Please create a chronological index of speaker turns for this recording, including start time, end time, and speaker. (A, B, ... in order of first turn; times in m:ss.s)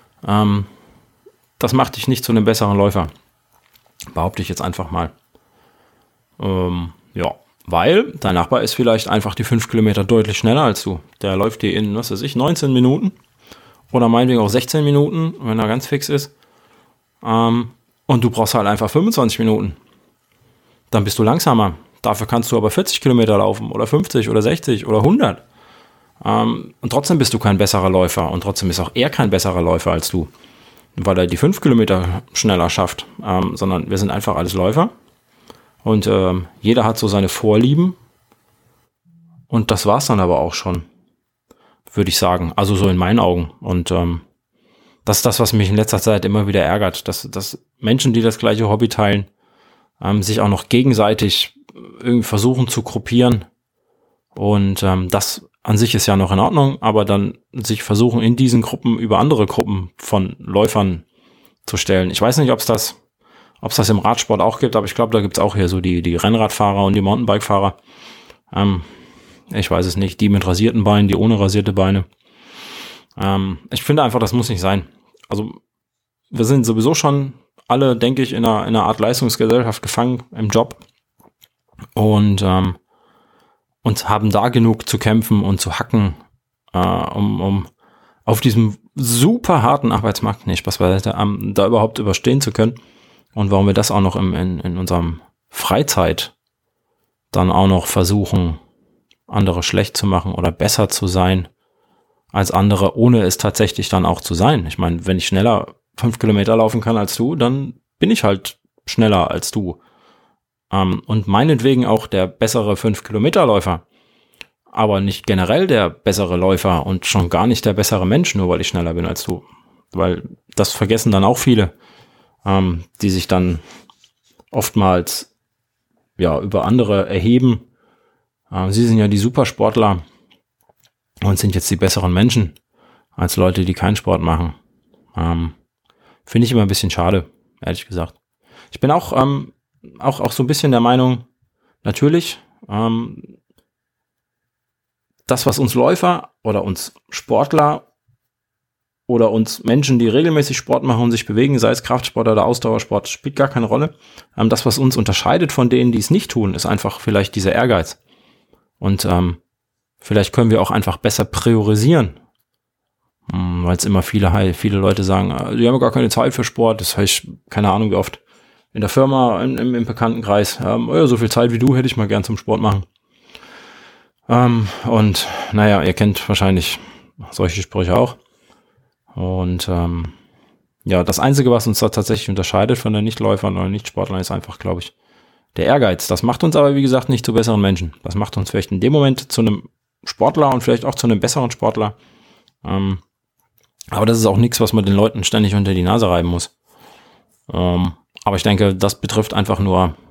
0:00.2-0:00.7 A
0:01.6-0:03.1 A
0:04.1-0:05.1 A
0:06.4-0:13.1 A
0:13.9-0:16.3 A
0:17.2-0:19.8 A
0:20.9-0:25.4 A
0:26.2-0:30.3 A
0:30.9-0:34.9 A
0:35.8-0:38.0 A
0:39.5-0:40.8 A
0:41.9-0:44.2 A
0:45.0-0:49.3 A
0:50.0-0:53.4 A
0:54.3-1:01.0 A
1:01.6-1:03.0 A
1:03.6-1:07.8 A
1:08.5-1:08.8 A
1:09.5-1:12.0 A
1:13.2-1:15.6 A
1:16.3-1:20.8 A
1:22.0-1:22.8 A
1:23.8-1:26.2 A
1:26.7-1:27.7 A
1:28.2-1:32.8 A
1:33.3-1:36.3 A
1:37.3-1:38.6 A
1:39.3-1:41.5 A
1:42.3-1:49.8 A
1:50.7-1:53.8 A
1:54.7-2:01.7 A
2:02.4-2:03.6 A
2:04.5-2:05.3 A
2:06.2-2:07.6 A
2:08.5-2:10.0 A
2:11.2-2:12.6 A
2:13.2-2:14.6 A
2:15.1-2:15.5 A
2:16.2-2:18.2 A
2:18.7-2:21.2 A
2:21.8-2:23.4 A
2:25.3-2:27.8 A
2:29.1-2:38.0 A
2:38.8-2:39.4 A
2:40.0-2:42.2 A
2:43.3-2:48.2 A
2:48.7-2:52.8 A
2:54.3-2:58.2 A
2:59.1-3:00.1 A
3:00.8-3:04.9 A
3:05.5-3:11.9 A
3:12.6-3:13.0 A
3:13.9-3:16.5 A
3:17.5-3:19.9 A